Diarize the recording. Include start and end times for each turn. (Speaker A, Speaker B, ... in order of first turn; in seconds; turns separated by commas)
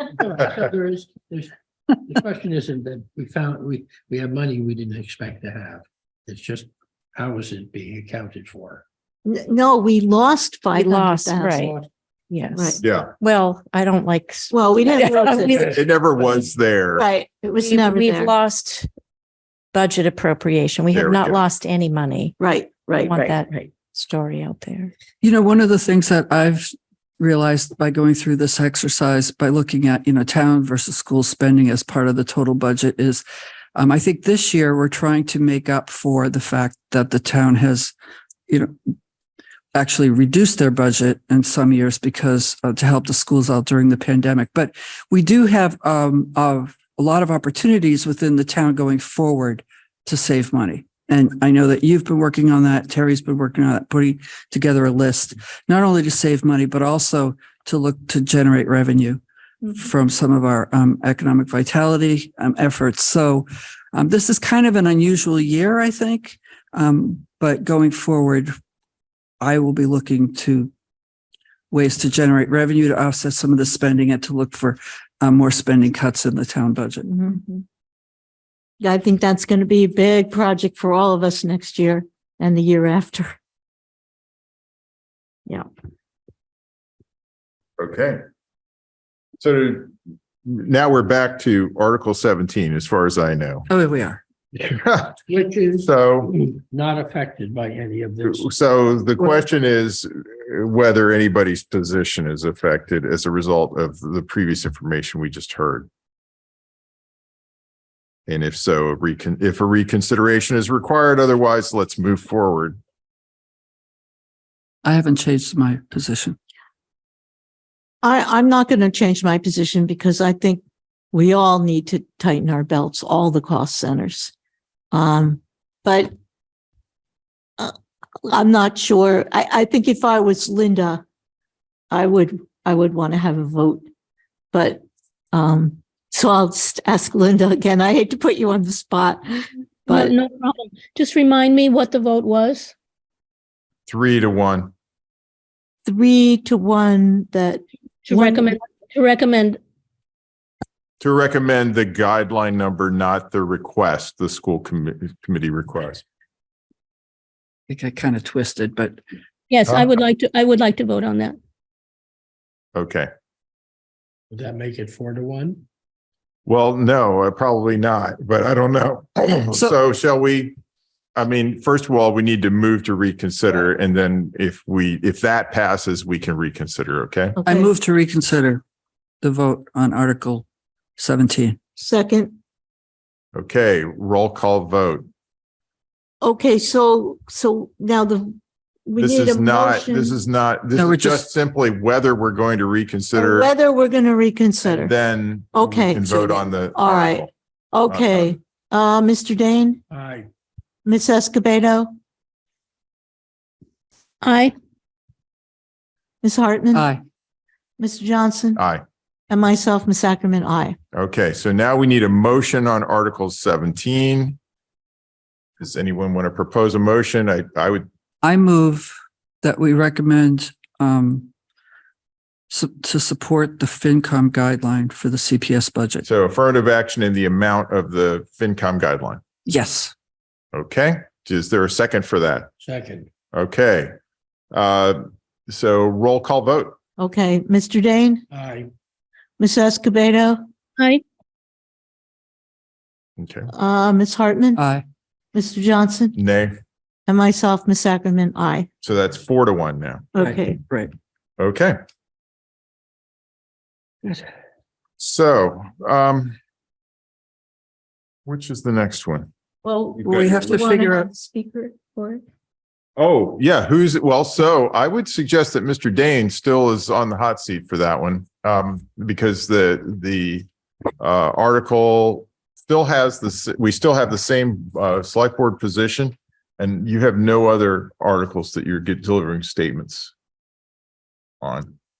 Speaker A: 0.1-1.5, Speaker A: 2.0-8.8, Speaker B: 9.2-11.7, Speaker C: 10.8-11.7, Speaker C: 12.3-15.7, Speaker B: 12.5-12.8, Speaker D: 12.8-13.1, Speaker B: 14.5-15.6, Speaker D: 15.7-17.0, Speaker B: 16.9-18.3, Speaker C: 17.6-18.9, Speaker C: 19.7-22.4, Speaker D: 20.9-21.4, Speaker B: 22.4-23.3, Speaker C: 23.0-24.9, Speaker E: 25.2-26.7, Speaker E: 27.2-33.2, Speaker E: 33.7-37.9, Speaker E: 39.7-68.5, Speaker E: 69.4-70.7, Speaker E: 71.7-77.0, Speaker B: 77.0-77.6, Speaker B: 78.8-83.3, Speaker D: 87.8-88.2, Speaker D: 89.4-93.7, Speaker E: 93.7-94.2, Speaker D: 94.6-95.2, Speaker A: 95.2-98.5, Speaker D: 95.8-96.3, Speaker D: 98.2-105.9, Speaker D: 108.3-112.8, Speaker E: 114.8-116.3, Speaker B: 118.0-120.6, Speaker B: 121.1-124.3, Speaker B: 124.9-126.1, Speaker B: 127.6-131.0, Speaker B: 131.9-133.8, Speaker B: 134.5-140.1, Speaker F: 139.9-142.7, Speaker D: 143.9-144.7, Speaker B: 145.8-148.6, Speaker F: 148.0-149.6, Speaker D: 151.0-156.0, Speaker E: 157.7-159.0, Speaker F: 159.5-161.4, Speaker D: 159.7-159.9, Speaker D: 162.7-163.1, Speaker A: 164.3-165.6, Speaker D: 166.4-170.6, Speaker D: 171.2-177.4, Speaker E: 177.4-178.6, Speaker B: 177.4-177.7, Speaker E: 179.2-180.4, Speaker E: 181.0-181.6, Speaker B: 181.8-182.3, Speaker D: 183.3-185.1, Speaker B: 186.2-190.2, Speaker D: 189.0-193.5, Speaker E: 190.7-191.2, Speaker B: 193.1-194.9, Speaker D: 194.7-197.3, Speaker B: 195.5-199.8, Speaker D: 197.8-198.4, Speaker A: 199.9-200.3, Speaker B: 200.8-201.9, Speaker F: 204.2-204.5, Speaker B: 206.2-206.9, Speaker E: 206.7-207.0, Speaker B: 207.8-208.6, Speaker D: 208.6-208.8, Speaker B: 209.3-210.8, Speaker D: 210.9-214.4, Speaker D: 215.6-217.9, Speaker E: 218.2-218.9, Speaker E: 219.4-221.3, Speaker E: 222.5-226.0, Speaker D: 226.1-229.2, Speaker E: 229.5-229.9, Speaker D: 230.5-232.5, Speaker A: 232.6-233.1, Speaker D: 233.3-233.9, Speaker D: 234.5-236.8, Speaker B: 237.0-238.2, Speaker A: 238.3-238.7, Speaker B: 239.4-240.4, Speaker F: 240.8-241.0, Speaker D: 243.2-243.5, Speaker B: 243.5-244.6, Speaker E: 244.6-244.8, Speaker B: 245.3-246.2, Speaker D: 246.2-246.6, Speaker B: 247.1-248.7, Speaker D: 248.8-250.1, Speaker B: 250.1-250.6, Speaker E: 250.2-250.9, Speaker D: 251.4-251.8, Speaker D: 255.0-256.4, Speaker D: 258.2-259.3, Speaker B: 259.6-262.2, Speaker E: 260.0-261.1, Speaker D: 263.0-270.5, Speaker D: 271.0-280.1, Speaker D: 281.4-281.7